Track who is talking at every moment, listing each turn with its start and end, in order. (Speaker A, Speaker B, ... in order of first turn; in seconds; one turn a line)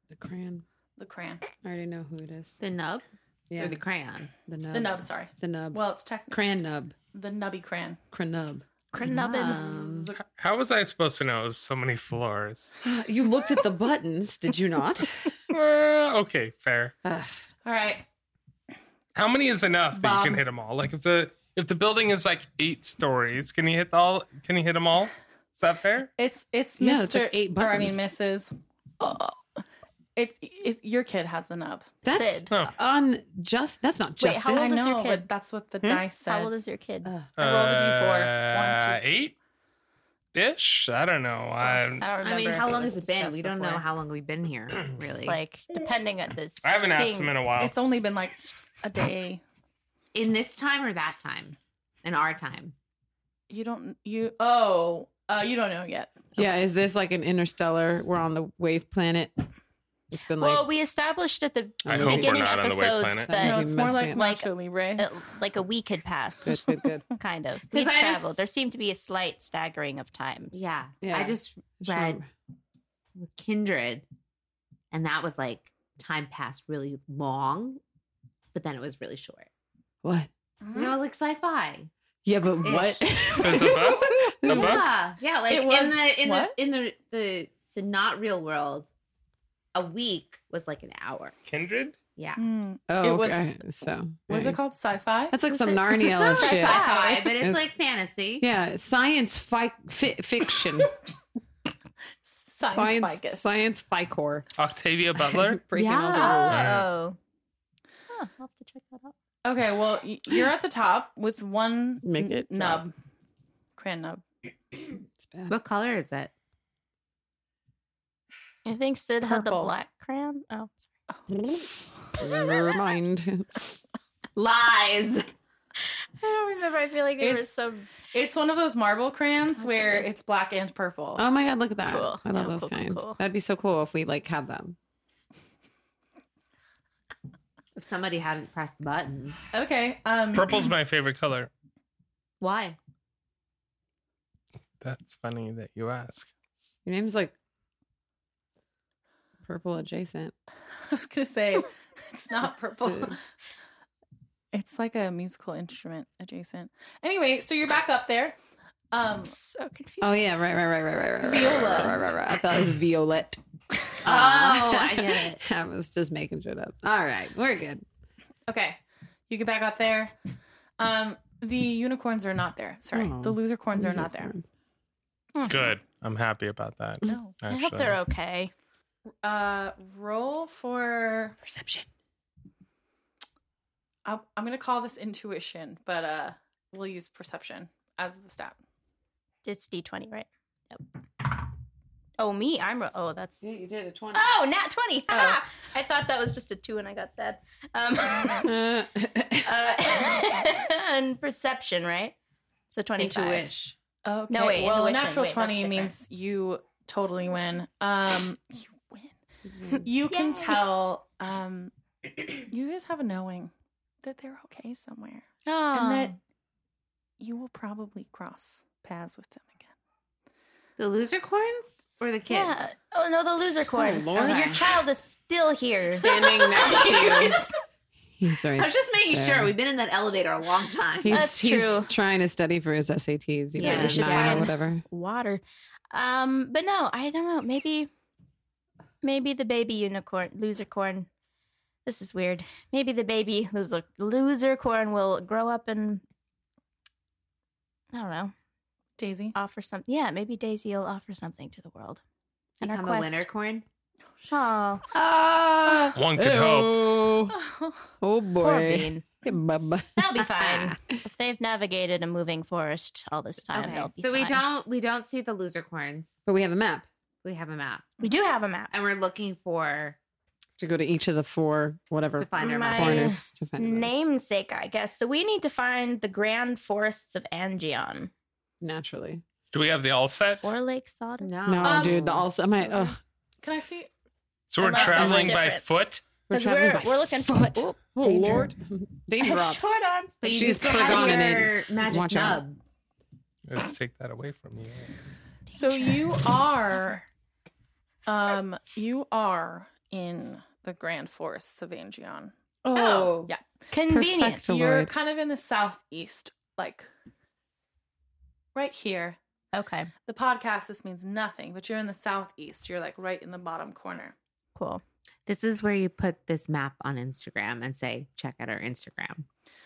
Speaker A: 0.1-0.6
Speaker B: 1.0-1.5
Speaker A: 1.6-2.6
Speaker C: 2.6-3.0
Speaker A: 3.5-3.8
Speaker C: 3.6-4.3
Speaker A: 4.5-7.0
Speaker B: 4.7-6.4
Speaker B: 7.1-8.0
Speaker A: 8.1-8.7
Speaker D: 8.9-9.6
Speaker C: 9.0-10.1
Speaker A: 9.4-10.1
Speaker B: 9.6-10.2
Speaker E: 10.3-12.8
Speaker A: 12.8-15.3
Speaker E: 15.5-16.9
Speaker A: 17.0-17.4
Speaker B: 17.6-18.1
Speaker E: 19.1-26.1
Speaker A: 20.0-20.4
Speaker B: 26.2-29.4
Speaker A: 26.8-28.0
Speaker B: 30.2-31.9
Speaker A: 32.0-34.8
Speaker D: 32.1-32.5
Speaker D: 34.2-35.3
Speaker B: 34.5-36.5
Speaker D: 36.3-37.1
Speaker B: 37.4-39.0
Speaker E: 37.4-39.3
Speaker E: 40.3-42.1
Speaker D: 42.0-43.9
Speaker C: 42.2-45.4
Speaker D: 45.2-47.3
Speaker E: 46.6-47.8
Speaker B: 47.6-49.4
Speaker C: 50.1-52.7
Speaker B: 53.5-56.4
Speaker A: 56.4-59.5
Speaker A: 60.1-60.7
Speaker D: 60.4-70.7
Speaker A: 61.8-62.5
Speaker E: 61.9-63.3
Speaker A: 63.2-64.2
Speaker B: 63.4-65.1
Speaker A: 66.5-67.0
Speaker C: 67.7-68.4
Speaker C: 70.5-72.2
Speaker A: 71.0-72.3
Speaker C: 73.2-74.0
Speaker C: 74.9-77.8
Speaker C: 78.5-79.5
Speaker A: 80.0-80.3
Speaker B: 80.6-81.0
Speaker C: 80.7-81.9
Speaker A: 82.2-84.8
Speaker C: 82.6-83.8
Speaker E: 83.4-84.9
Speaker C: 84.5-88.9
Speaker B: 85.5-86.6
Speaker C: 89.7-91.3
Speaker E: 91.5-92.0
Speaker C: 92.2-92.4
Speaker B: 92.4-93.6
Speaker A: 92.9-94.6
Speaker B: 94.3-95.4
Speaker A: 95.3-97.7
Speaker D: 95.5-97.4
Speaker C: 96.1-98.5
Speaker A: 98.4-100.9
Speaker B: 102.2-103.5
Speaker A: 102.6-104.5
Speaker E: 104.6-105.6
Speaker A: 105.2-106.6
Speaker C: 105.7-106.6
Speaker D: 106.1-107.2
Speaker E: 106.5-106.9
Speaker D: 108.1-109.1
Speaker B: 109.4-112.9
Speaker A: 112.0-112.8
Speaker B: 113.8-114.2
Speaker A: 115.2-115.5
Speaker C: 115.5-116.3
Speaker D: 118.7-120.9
Speaker B: 119.2-119.7
Speaker A: 121.3-123.7
Speaker C: 124.3-125.3
Speaker D: 126.2-127.9
Speaker B: 127.2-131.2
Speaker D: 129.6-130.0
Speaker A: 131.2-134.8
Speaker D: 131.9-133.2
Speaker C: 137.8-139.4
Speaker B: 139.5-140.7
Speaker E: 140.3-141.5
Speaker C: 142.4-142.8
Speaker E: 144.8-146.3
Speaker A: 146.8-147.3
Speaker A: 149.4-150.3
Speaker B: 150.9-153.2
Speaker A: 152.9-153.2
Speaker B: 154.5-158.4
Speaker B: 158.9-159.3
Speaker D: 159.2-160.2
Speaker A: 160.0-163.4
Speaker B: 161.2-162.0
Speaker A: 164.0-167.8
Speaker C: 164.0-165.4
Speaker B: 168.5-170.1
Speaker B: 170.8-174.3
Speaker A: 172.9-174.5
Speaker B: 175.4-175.7
Speaker E: 175.4-178.0
Speaker B: 177.1-177.3
Speaker D: 177.5-178.5
Speaker B: 179.2-181.4
Speaker B: 184.1-188.6
Speaker D: 189.4-190.8
Speaker D: 192.2-193.4
Speaker A: 193.4-194.3
Speaker D: 194.1-198.6
Speaker B: 195.1-195.4
Speaker A: 198.4-199.8
Speaker D: 199.4-202.2
Speaker D: 202.7-203.5
Speaker C: 203.0-203.7
Speaker B: 204.1-209.1
Speaker D: 204.3-205.9
Speaker A: 209.5-209.9
Speaker B: 209.8-216.2
Speaker D: 210.1-210.6
Speaker D: 215.5-216.2
Speaker B: 217.2-219.7
Speaker C: 220.8-222.6
Speaker D: 222.3-227.5
Speaker A: 223.8-224.6
Speaker C: 224.2-224.6
Speaker A: 226.0-227.4
Speaker A: 228.2-229.6
Speaker C: 228.6-231.3
Speaker A: 231.0-234.8
Speaker D: 231.1-231.9
Speaker C: 233.6-234.5
Speaker D: 233.6-237.9
Speaker D: 239.0-241.1
Speaker D: 241.8-246.0
Speaker D: 247.9-248.3
Speaker B: 249.0-249.4
Speaker D: 249.3-252.0
Speaker D: 252.6-253.3
Speaker C: 252.6-253.7
Speaker D: 254.3-254.8
Speaker A: 254.9-257.4
Speaker E: 255.9-256.9
Speaker B: 257.3-257.8
Speaker A: 258.0-260.7
Speaker D: 258.4-259.0
Speaker D: 260.0-264.4
Speaker C: 263.5-266.2
Speaker A: 266.3-266.9
Speaker C: 267.2-267.9
Speaker D: 268.0-268.7
Speaker C: 268.7-270.0
Speaker A: 270.6-273.9
Speaker C: 272.2-273.2
Speaker D: 272.4-278.1
Speaker A: 278.6-279.2
Speaker E: 279.5-280.4
Speaker D: 280.4-281.3
Speaker C: 281.2-282.3
Speaker A: 281.5-283.0
Speaker B: 281.6-282.1
Speaker B: 283.4-283.9
Speaker E: 284.5-286.1
Speaker D: 284.6-285.6
Speaker B: 284.7-285.2
Speaker A: 284.9-285.4
Speaker A: 286.3-292.4
Speaker D: 286.3-288.5
Speaker D: 289.2-291.5
Speaker C: 290.2-292.6
Speaker E: 293.5-294.9
Speaker D: 295.5-296.2
Speaker B: 295.5-297.0
Speaker B: 298.1-302.3
Speaker A: 302.6-303.3
Speaker D: 302.7-303.1
Speaker D: 303.7-304.5
Speaker A: 303.9-304.9
Speaker B: 304.4-306.9
Speaker B: 308.6-309.2
Speaker D: 309.5-309.9
Speaker B: 310.1-314.1
Speaker D: 314.6-314.8
Speaker C: 315.3-319.3